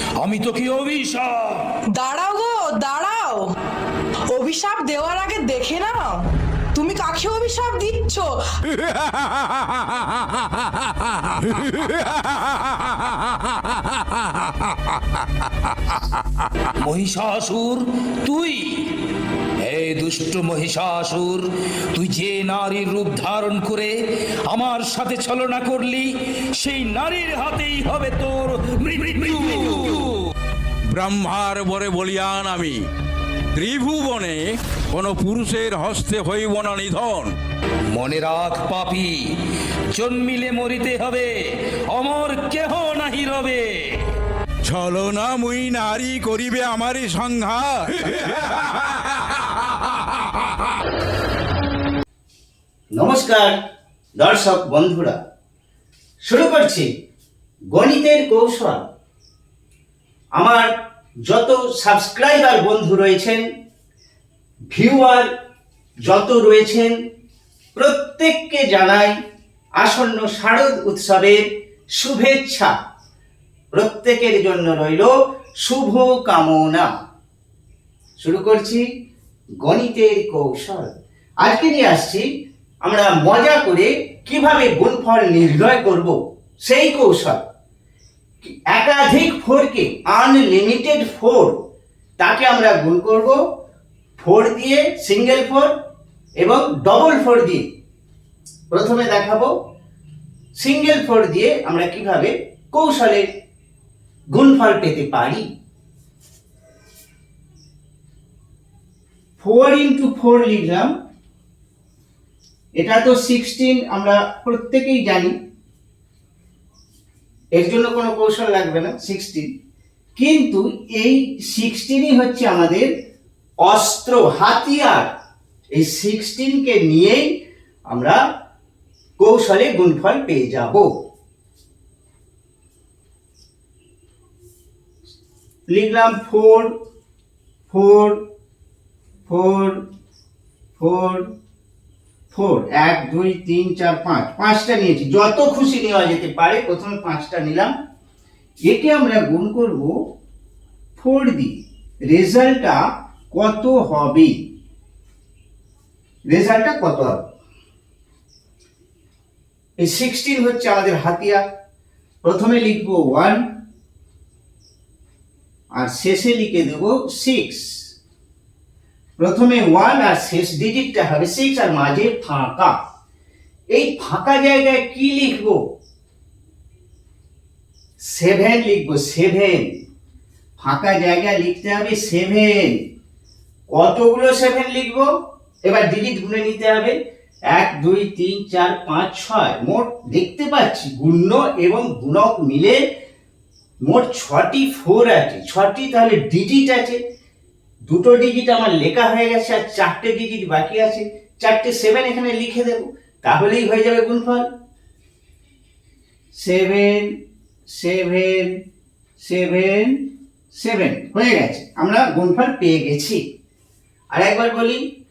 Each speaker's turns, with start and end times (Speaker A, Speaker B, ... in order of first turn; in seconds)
Speaker A: 0.2-1.8, 11.2-11.6, 14.1-14.5, 16.7-23.9, 24.5-30.1, 37.9-39.3, 39.9-44.0
Speaker B: 1.9-3.5, 4.3-8.7
Speaker C: 8.9-9.7, 11.7-12.8, 30.9-32.9, 33.5-37.4, 44.6-49.5
Speaker D: 52.9-53.5, 54.2-55.2, 56.2-56.9, 57.7-58.9, 60.4-60.7, 61.3-63.5, 64.7-65.3, 66.0-67.0, 67.8-69.2, 69.8-71.4, 72.0-72.7, 73.7-76.9, 78.2-78.8, 79.6-82.3, 82.8-87.4, 88.4-91.6, 92.2-93.4, 94.2-95.7, 96.4-97.7, 98.7-99.5, 100.6-103.2, 104.3-105.4, 109.4-110.9, 112.8-115.3, 117.5-119.5, 120.2-122.9, 123.6-125.1, 125.7-127.3, 127.9-128.2, 129.2-130.9, 135.7-136.7, 137.7-138.2, 139.3-139.8, 140.8-141.2, 142.3-147.7, 148.7-150.0, 151.0-152.8, 153.3-154.4, 156.3-157.2, 159.8-161.4, 162.2-163.4, 165.7-167.9, 169.2-172.7, 173.7-175.6, 178.0-179.7, 180.6-182.8, 183.7-185.1, 185.7-187.0, 187.5-192.8, 193.8-197.0, 197.9-204.4, 206.4-207.1, 207.7-208.5, 209.2-210.0, 210.5-213.2, 214.1-214.8